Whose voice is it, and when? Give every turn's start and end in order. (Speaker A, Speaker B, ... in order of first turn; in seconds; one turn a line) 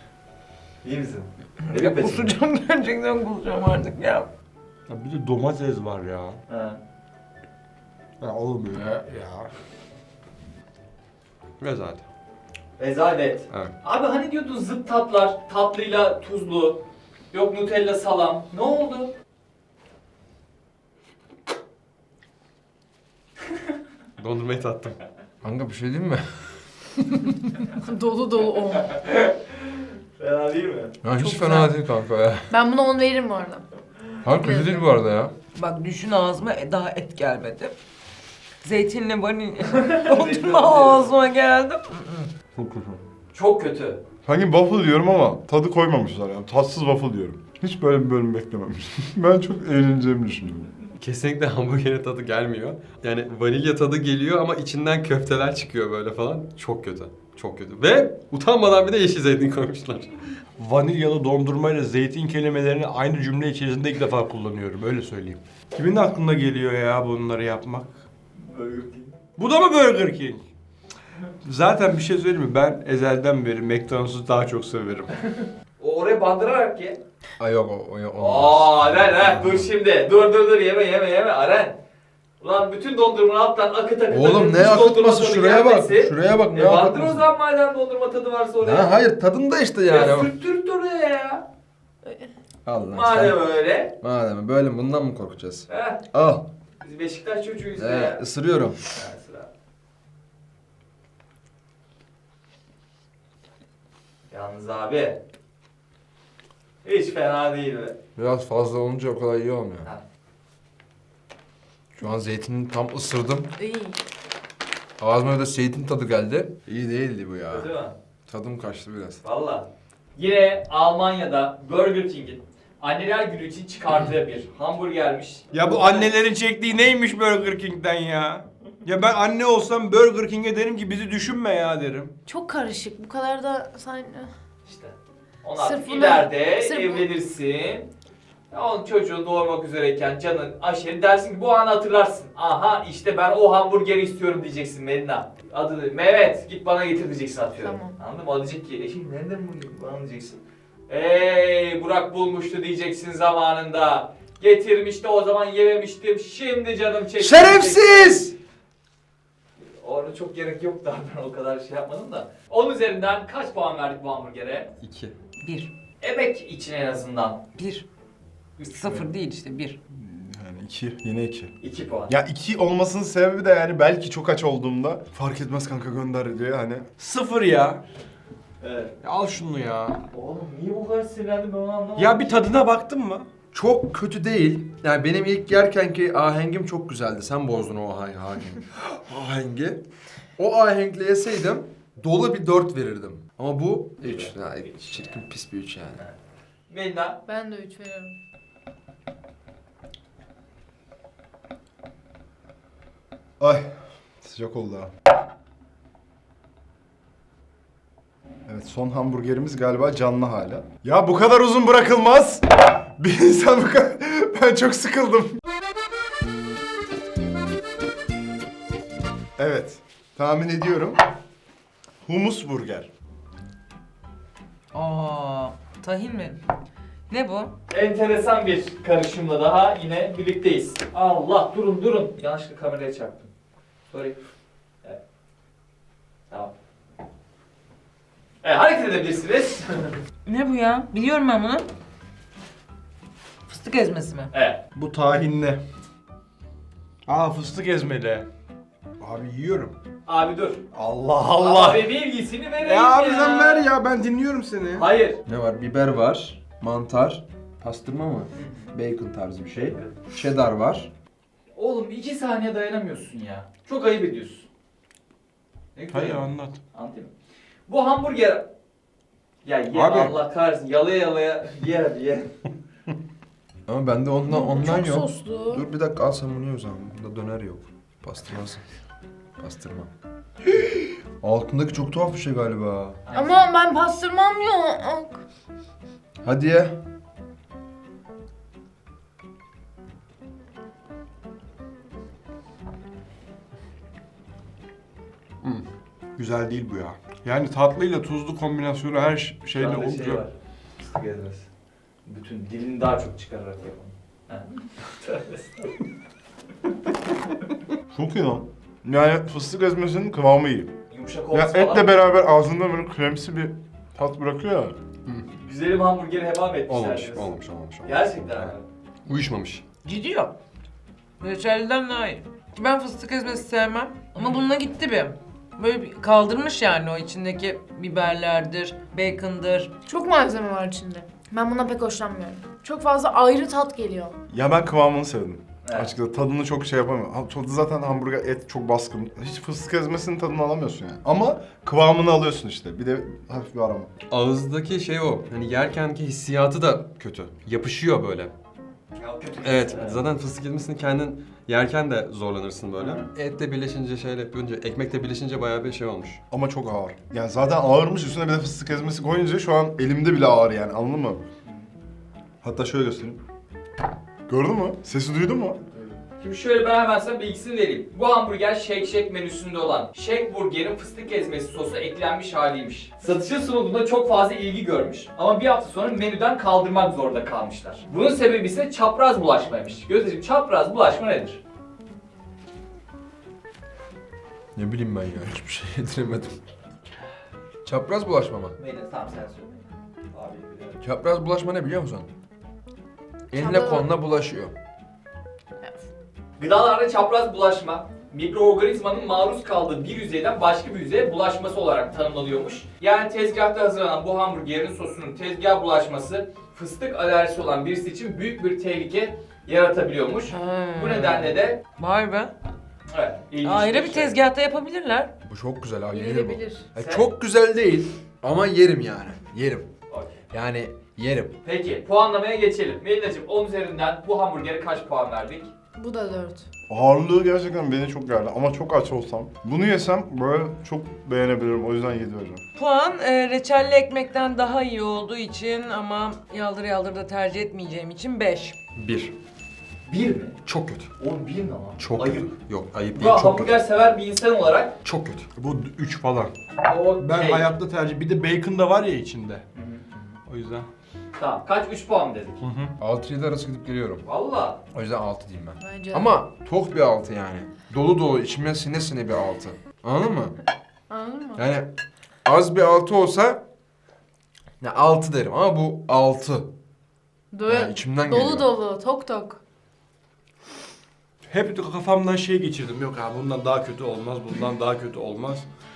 Speaker A: 0.8-2.4
Speaker B: 1.6-4.3
Speaker C: 4.9-6.4
Speaker A: 6.5-6.8
Speaker C: 8.2-9.5
Speaker D: 11.6-12.0
Speaker A: 12.8-19.1
Speaker D: 24.2-25.0
Speaker E: 25.4-26.6
Speaker F: 27.7-28.9
Speaker A: 28.8-29.4
Speaker A: 30.2-31.0
Speaker E: 31.0-32.5
Speaker F: 31.2-31.7
Speaker F: 32.5-33.6
Speaker E: 34.2-35.3
Speaker F: 34.3-34.9
Speaker B: 35.5-37.7
Speaker B: 38.6-42.3
Speaker A: 39.7-41.0
Speaker G: 42.5-43.0
Speaker A: 43.3-44.0
Speaker G: 44.2-50.7
Speaker D: 51.0-60.2
Speaker C: 60.6-67.9
Speaker A: 68.4-69.2
Speaker C: 69.4-70.4
Speaker C: 71.4-75.1
Speaker A: 75.3-77.0
Speaker E: 77.4-79.7
Speaker A: 78.2-81.8
Speaker A: 82.4-89.0
Speaker E: 84.1-87.3
Speaker E: 88.6-90.3
Speaker A: 89.9-91.4
Speaker E: 92.6-96.5
Speaker A: 92.9-93.9
Speaker A: 95.7-96.0
Speaker A: 96.8-98.2
Speaker E: 97.7-98.8
Speaker A: 98.9-99.5
Speaker A: 104.3-105.2
Speaker A: 106.8-108.0
Speaker E: 108.2-109.9
Speaker E: 112.0-113.5
Speaker F: 113.6-114.0
Speaker E: 115.0-117.7
Speaker A: 117.5-117.9
Speaker E: 118.3-119.2
Speaker A: 119.2-126.1
Speaker C: 125.5-132.1
Speaker F: 132.2-134.3
Speaker A: 134.6-137.9
Speaker F: 135.6-137.1
Speaker A: 138.5-158.3
Speaker F: 147.6-147.9
Speaker E: 157.2-158.3
Speaker A: 159.6-164.7
Speaker D: 164.8-165.1
Speaker B: 165.4-165.7
Speaker A: 166.0-167.4
Speaker B: 167.6-167.8
Speaker A: 168.6-169.0
Speaker B: 168.6-169.8
Speaker G: 169.9-171.5
Speaker A: 171.6-172.1
Speaker G: 172.1-176.8
Speaker C: 177.0-177.8
Speaker A: 178.6-178.9
Speaker C: 179.0-180.0
Speaker A: 180.1-182.3
Speaker C: 182.0-183.3
Speaker E: 183.5-189.8
Speaker E: 190.4-196.0
Speaker A: 194.0-195.2
Speaker A: 196.7-197.2
Speaker F: 197.2-198.2
Speaker G: 203.4-204.9
Speaker G: 208.4-215.4
Speaker G: 219.4-221.0
Speaker G: 222.0-222.9
Speaker B: 224.7-226.4
Speaker B: 227.1-227.5
Speaker A: 227.7-233.3
Speaker A: 233.9-234.2
Speaker A: 238.4-239.9
Speaker B: 240.2-241.7
Speaker B: 243.4-244.3
Speaker A: 244.3-244.6
Speaker C: 244.7-245.6
Speaker C: 247.1-248.2
Speaker C: 249.0-249.7
Speaker A: 250.1-250.6
Speaker C: 250.7-252.0
Speaker A: 251.4-253.7
Speaker C: 252.6-254.9
Speaker A: 254.7-255.2
Speaker E: 255.2-260.9
Speaker A: 258.3-258.7
Speaker A: 259.5-259.9
Speaker A: 261.5-264.4
Speaker A: 265.7-267.1
Speaker C: 265.9-266.6
Speaker A: 267.7-268.5
Speaker A: 269.4-272.4
Speaker C: 269.7-270.2
Speaker E: 273.7-278.6
Speaker F: 274.2-275.6
Speaker E: 279.4-279.9
Speaker E: 280.5-283.0
Speaker A: 283.1-283.5
Speaker F: 283.1-285.2
Speaker E: 286.2-286.8
Speaker C: 296.2-300.2
Speaker A: 299.6-301.5
Speaker A: 302.1-304.5
Speaker A: 305.0-305.8
Speaker G: 307.9-310.7
Speaker A: 310.9-311.9
Speaker G: 311.3-314.7
Speaker A: 315.4-318.6
Speaker D: 316.7-318.5
Speaker D: 319.1-319.6
Speaker B: 319.8-320.3
Speaker B: 321.2-329.7
Speaker F: 329.9-334.2
Speaker G: 334.3-343.9
Speaker A: 335.6-335.9
Speaker D: 344.1-348.3
Speaker A: 349.0-350.0
Speaker D: 349.4-356.2
Speaker A: 352.8-353.1
Speaker G: 356.3-361.2
Speaker G: 362.4-363.2
Speaker G: 364.3-365.6
Speaker A: 365.7-381.4
Speaker E: 384.5-386.4
Speaker E: 387.6-388.6
Speaker A: 388.6-390.8
Speaker E: 390.8-392.1
Speaker E: 393.3-394.5
Speaker F: 393.3-393.9
Speaker A: 396.4-411.6
Speaker B: 410.3-412.3
Speaker A: 412.9-414.2
Speaker B: 413.4-415.1
Speaker E: 415.2-419.7
Speaker F: 415.9-416.6
Speaker A: 416.8-417.1
Speaker A: 419.9-420.2
Speaker E: 420.3-421.4
Speaker A: 421.4-425.5
Speaker F: 425.8-426.5
Speaker G: 426.7-432.4
Speaker B: 432.5-438.6
Speaker D: 438.8-439.1
Speaker A: 439.9-440.4
Speaker D: 440.4-440.9
Speaker A: 441.0-442.3
Speaker D: 441.8-443.5
Speaker A: 442.9-444.7
Speaker D: 444.8-445.3
Speaker C: 445.4-446.3
Speaker A: 446.6-447.5
Speaker C: 447.0-449.4
Speaker A: 449.5-450.1
Speaker C: 450.3-450.7
Speaker A: 451.2-452.4
Speaker C: 452.4-452.7
Speaker E: 452.8-454.0
Speaker A: 454.1-454.6
Speaker E: 454.7-460.4
Speaker F: 455.6-456.1
Speaker F: 460.9-461.4
Speaker E: 461.4-461.7
Speaker E: 462.2-463.4
Speaker E: 464.6-466.5
Speaker F: 467.3-469.4
Speaker E: 467.5-468.5
Speaker C: 471.3-475.4